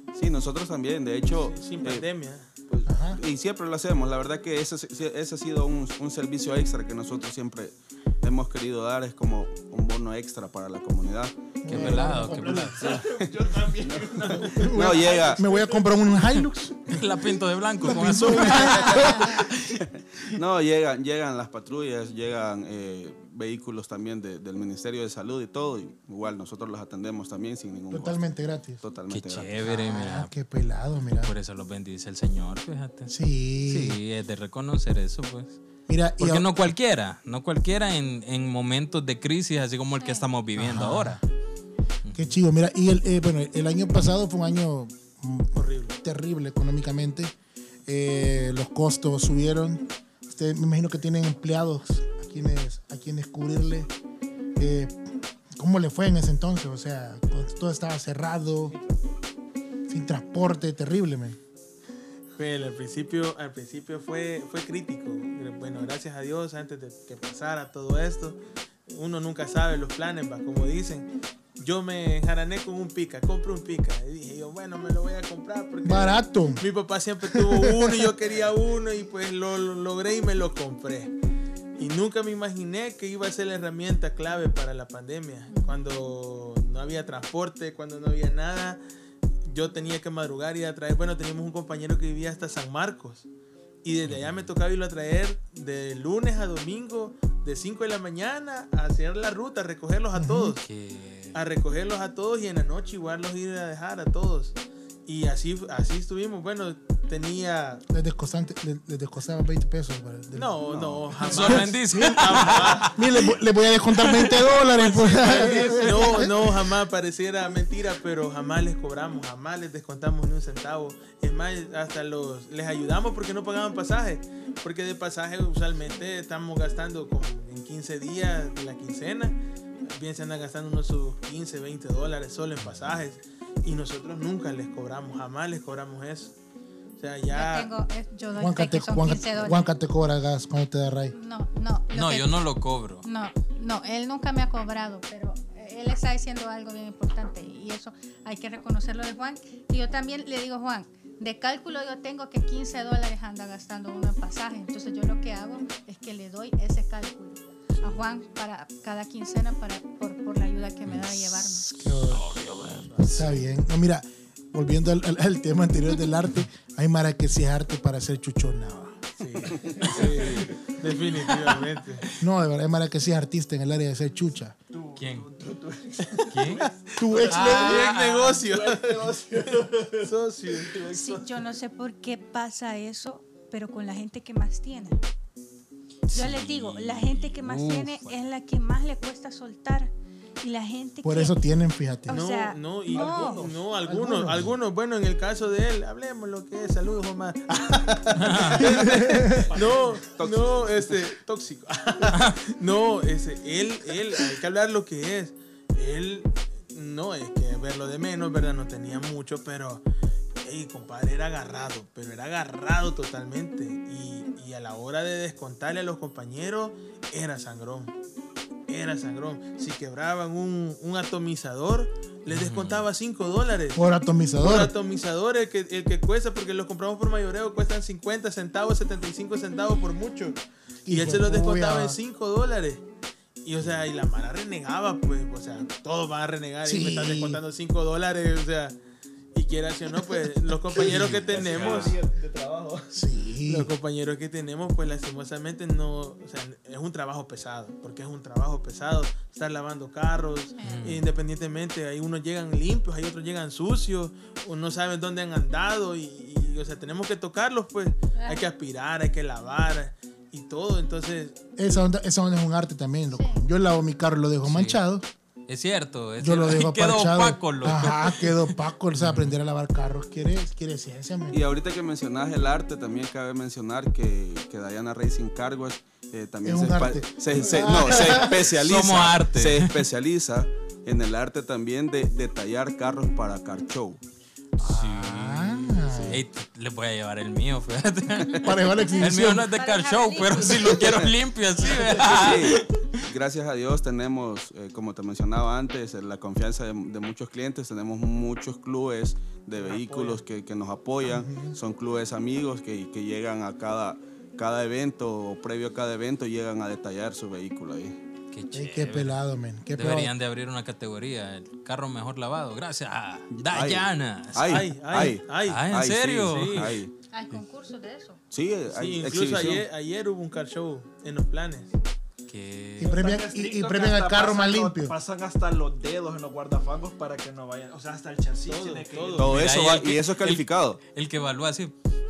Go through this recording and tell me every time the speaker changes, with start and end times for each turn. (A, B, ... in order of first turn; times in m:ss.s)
0:00.1-0:02.0 A
0:01.4-0:02.5 B
0:02.7-0:12.0 A
0:02.8-0:03.2 C
0:11.6-0:13.0 C
0:11.7-0:12.9 D
0:11.9-0:16.2 E
0:12.9-0:13.3 A
0:13.8-0:15.4 A
0:14.4-0:17.0 C
0:16.8-0:19.2 D
0:17.8-0:19.4 C
0:19.1-0:28.2 A
0:27.9-0:28.8 C
0:28.8-0:29.6 A
0:29.1-0:30.3 D
0:29.6-0:31.3 C
0:31.2-0:33.1 D
0:33.1-0:34.0 C
0:33.6-0:35.6 D
0:35.9-0:36.7 C
0:36.2-0:41.2 D
0:40.0-0:40.3 F
0:40.5-0:41.2 C
0:42.0-0:42.3 D
0:42.1-0:47.3 C
0:45.6-0:46.0 B
0:47.9-0:53.9 C
0:54.6-0:55.0 C
0:55.5-0:58.8 C
0:58.7-0:59.2 E
0:59.9-1:01.4 C
1:02.4-1:21.1 B
1:15.8-1:16.6 C
1:17.3-1:18.1 C
1:21.8-1:28.8 B
1:29.4-1:33.3 B
1:33.8-1:40.6 B
1:34.0-1:34.5 D
1:40.1-1:40.6 C
1:40.6-1:41.4 D
1:41.3-1:47.8 B
1:47.9-1:52.4 C
1:50.3-1:53.0 B
1:51.2-1:53.3 D
1:52.9-1:56.5 C
1:54.0-1:56.0 D
1:54.7-2:16.3 B
1:55.1-1:56.2 E
2:12.6-2:13.0 D
2:17.0-2:17.7 B
2:17.3-2:19.6 F
2:18.4-2:21.1 C
2:21.1-2:22.4 F
2:21.9-2:23.0 D
2:23.0-2:41.7 F
2:40.9-2:42.9 D
2:41.7-2:49.0 C
2:49.2-2:52.0 B
2:49.6-2:50.7 E
2:52.2-2:54.6 C
2:54.7-3:01.4 E
2:55.0-2:55.3 D
2:56.3-2:56.6 D
2:56.5-2:59.0 B
2:57.0-2:57.8 C
2:57.3-2:58.4 D
3:00.0-3:00.8 B
3:00.9-3:05.0 F
3:06.1-3:11.4 F
3:06.1-3:08.3 D
3:11.0-3:12.2 C
3:12.1-3:13.5 F
3:12.1-3:29.8 B
3:12.9-3:13.7 E
3:13.8-3:14.4 C
3:18.1-3:18.7 D
3:18.6-3:20.1 E
3:18.6-3:19.4 C
3:19.6-3:20.9 A
3:22.1-3:22.4 D
3:30.4-3:37.9 B
3:38.7-3:43.8 B
3:42.3-3:42.9 D
3:43.8-3:44.7 C
3:44.4-3:52.8 B
3:50.8-3:52.0 C
3:53.4-3:58.8 B
3:56.6-3:57.4 C
3:59.3-4:02.0 B
4:00.9-4:01.9 D
4:00.9-4:03.0 E
4:02.9-4:03.7 C
4:03.5-4:21.8 B
4:10.6-4:10.8 F
4:10.6-4:11.0 D
4:18.1-4:18.4 F
4:21.6-4:25.1 C
4:23.1-4:23.4 F
4:24.4-4:24.8 D
4:25.5-4:29.4 D
4:26.2-4:31.4 C
4:31.3-4:44.0 A
4:36.4-4:38.4 C
4:38.4-4:39.8 D
4:44.6-4:46.2 C
4:44.6-4:52.7 D
4:45.9-4:46.2 A
4:48.3-4:49.5 C
4:48.8-4:50.8 F
4:50.6-4:51.1 A
4:52.0-5:08.0 A
4:59.6-5:00.2 B
5:01.0-5:01.6 C
5:08.3-5:16.8 D
5:08.5-5:10.1 C
5:13.3-5:16.9 A
5:14.5-5:15.6 B
5:16.3-5:16.8 B
5:17.1-5:18.2 F
5:18.3-5:19.7 A
5:18.7-5:21.7 B
5:22.3-5:22.9 D
5:22.8-5:24.9 C
5:22.8-5:29.4 E
5:28.5-5:29.3 B
5:29.2-5:30.8 A
5:29.2-5:31.7 D